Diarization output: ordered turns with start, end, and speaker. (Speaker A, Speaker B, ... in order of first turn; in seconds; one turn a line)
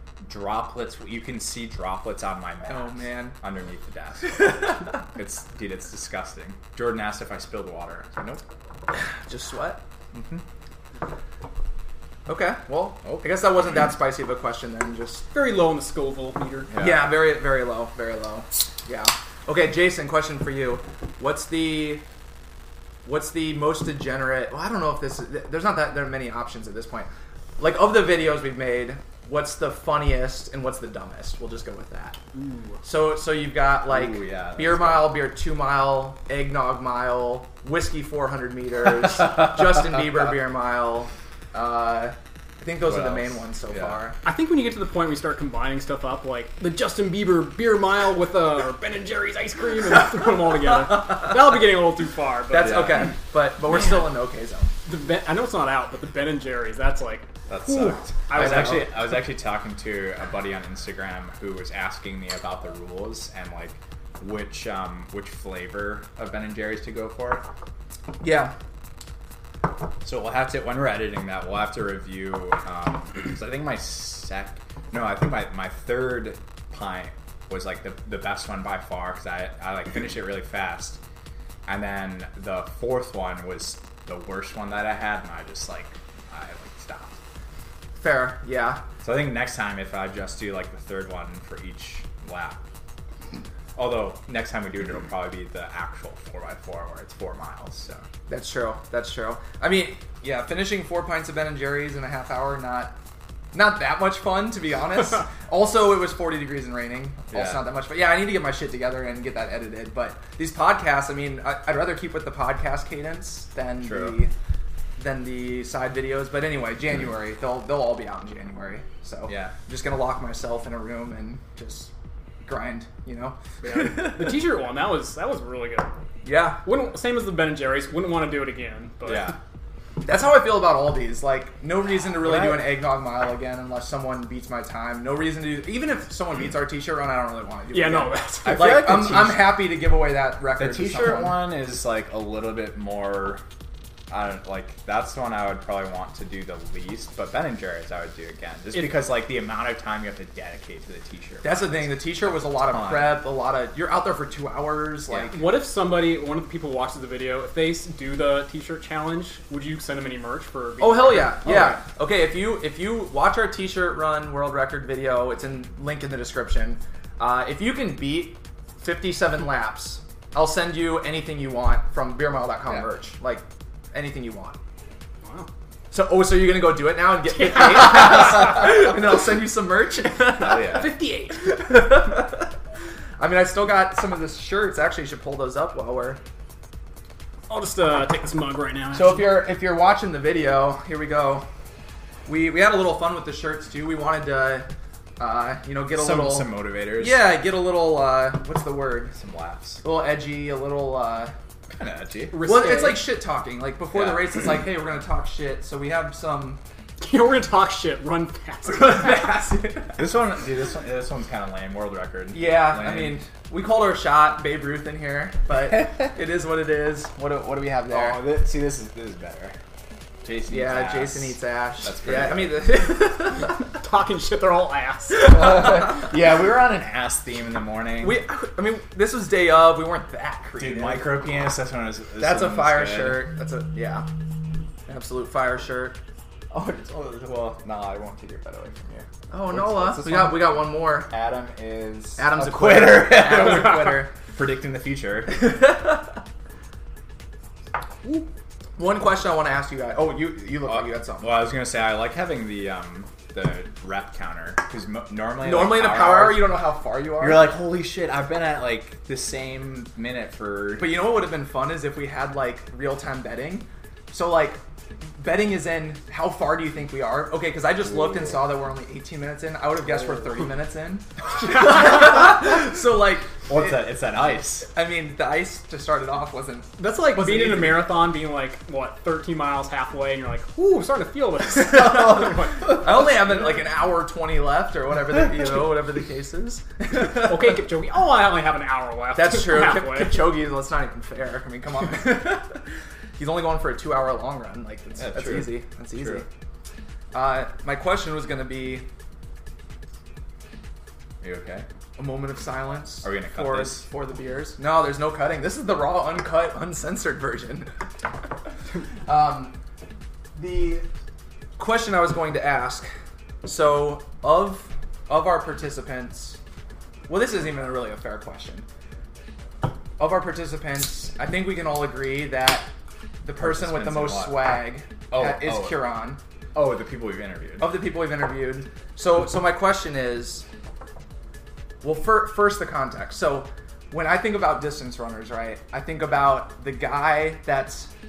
Speaker A: 0.2-8.4
Speaker B: 2.7-3.4
Speaker B: 8.9-9.8
Speaker A: 10.1-10.4
Speaker B: 12.3-15.3
Speaker A: 13.0-13.4
Speaker C: 15.3-16.8
Speaker A: 16.7-17.1
Speaker B: 16.8-22.0
Speaker B: 23.1-32.2
Speaker C: 32.4-32.7
Speaker B: 32.8-44.2
Speaker A: 33.9-35.2
Speaker A: 42.8-44.0
Speaker C: 44.2-53.0
Speaker B: 52.5-54.7
Speaker A: 52.6-53.0
Speaker C: 54.9-58.9
Speaker A: 57.5-67.4
Speaker B: 58.3-58.9
Speaker B: 68.2-68.5
Speaker A: 70.0-81.0
Speaker A: 81.7-87.2
Speaker B: 88.0-88.8
Speaker A: 89.0-92.6
Speaker A: 93.8-98.0
Speaker B: 98.3-103.0
Speaker B: 103.5-114.3
Speaker A: 107.3-107.6
Speaker A: 113.8-114.2
Speaker B: 115.0-121.9
Speaker A: 119.3-119.5
Speaker B: 122.5-124.4
Speaker C: 123.6-125.9
Speaker B: 126.2-126.6
Speaker C: 126.6-129.4
Speaker A: 129.0-129.4
Speaker B: 130.0-141.4
Speaker A: 132.2-132.8
Speaker C: 137.7-138.8
Speaker A: 138.4-139.6
Speaker A: 140.6-143.4
Speaker A: 144.1-153.2
Speaker B: 151.4-155.4
Speaker A: 155.1-155.3
Speaker C: 155.3-161.5
Speaker B: 160.8-174.6
Speaker A: 161.5-161.8
Speaker C: 175.2-175.5
Speaker B: 175.9-182.5
Speaker C: 177.3-178.5
Speaker A: 180.4-180.9
Speaker C: 180.4-181.4
Speaker B: 183.2-186.2
Speaker C: 187.5-189.4
Speaker B: 188.9-191.5
Speaker B: 192.3-194.7
Speaker B: 195.2-199.1
Speaker A: 195.9-197.3
Speaker A: 199.1-199.8
Speaker B: 199.8-201.3
Speaker A: 201.7-202.4
Speaker C: 202.3-203.1
Speaker B: 202.4-206.6
Speaker A: 203.9-204.3
Speaker C: 207.0-209.2
Speaker B: 208.7-210.0
Speaker A: 209.9-213.2
Speaker B: 212.3-218.2
Speaker A: 217.8-219.6
Speaker A: 220.2-222.7
Speaker B: 220.5-223.6
Speaker C: 223.7-225.4
Speaker B: 225.2-226.1
Speaker A: 225.2-228.2
Speaker B: 228.0-231.1
Speaker A: 230.6-233.2
Speaker B: 232.2-234.1
Speaker B: 234.9-236.0
Speaker A: 236.5-245.6
Speaker B: 239.3-241.1
Speaker B: 242.2-244.1
Speaker B: 245.3-246.0
Speaker B: 248.8-251.3
Speaker A: 250.7-256.6
Speaker B: 255.4-257.5
Speaker A: 257.2-261.1
Speaker B: 260.8-264.6
Speaker B: 265.1-273.8
Speaker A: 273.5-274.7
Speaker B: 274.6-277.9
Speaker C: 276.8-282.9
Speaker B: 281.8-287.6
Speaker C: 287.0-290.4
Speaker B: 289.1-296.3
Speaker A: 295.0-296.2
Speaker B: 297.1-298.9
Speaker A: 301.2-301.6
Speaker B: 302.0-307.7
Speaker A: 303.0-303.9
Speaker B: 309.1-309.6
Speaker B: 310.4-310.9
Speaker B: 311.6-312.9
Speaker B: 313.4-316.4
Speaker B: 317.1-318.6
Speaker B: 320.0-322.7
Speaker B: 323.2-326.2
Speaker A: 323.4-324.5
Speaker A: 325.1-325.9
Speaker A: 326.5-327.8
Speaker B: 327.6-330.5
Speaker B: 331.8-337.9